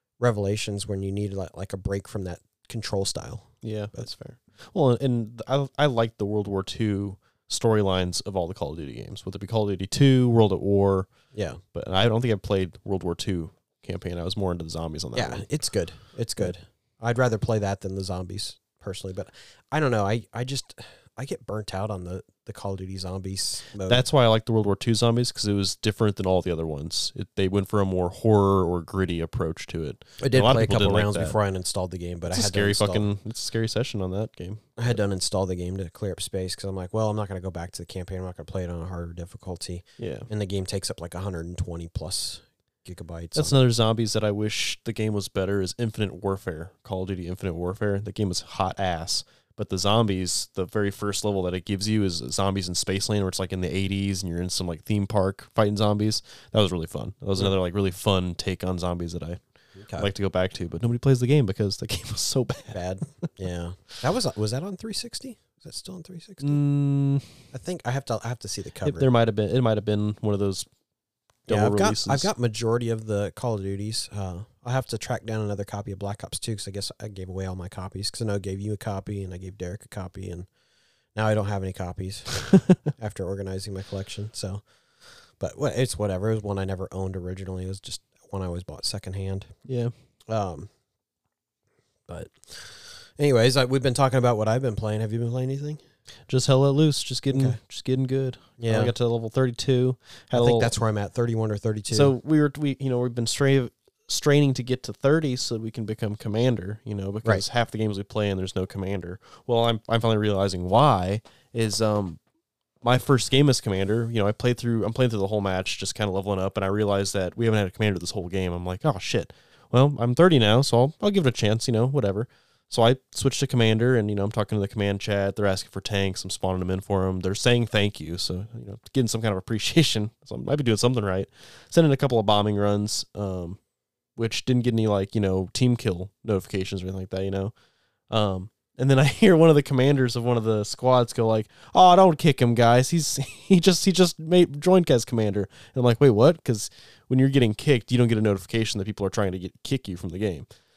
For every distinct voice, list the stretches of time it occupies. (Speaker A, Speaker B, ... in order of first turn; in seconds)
Speaker A: 0.2-4.1, 11.3-11.6, 15.1-24.1, 30.2-33.1, 34.8-43.6, 59.8-60.1, 62.7-66.6, 67.5-69.1, 71.5-80.5, 81.1-89.5, 90.3-90.7, 92.1-95.8, 97.3-97.6, 98.6-98.9, 100.3-102.1
Speaker B: 3.6-15.6, 23.9-31.4, 32.3-35.0, 40.0-40.3, 43.4-59.4, 59.9-62.8, 66.4-67.3, 68.8-70.7, 71.5-72.3, 89.7-89.9, 96.3-100.7, 101.9-112.2, 112.8-133.6, 134.2-137.5, 138.1-150.5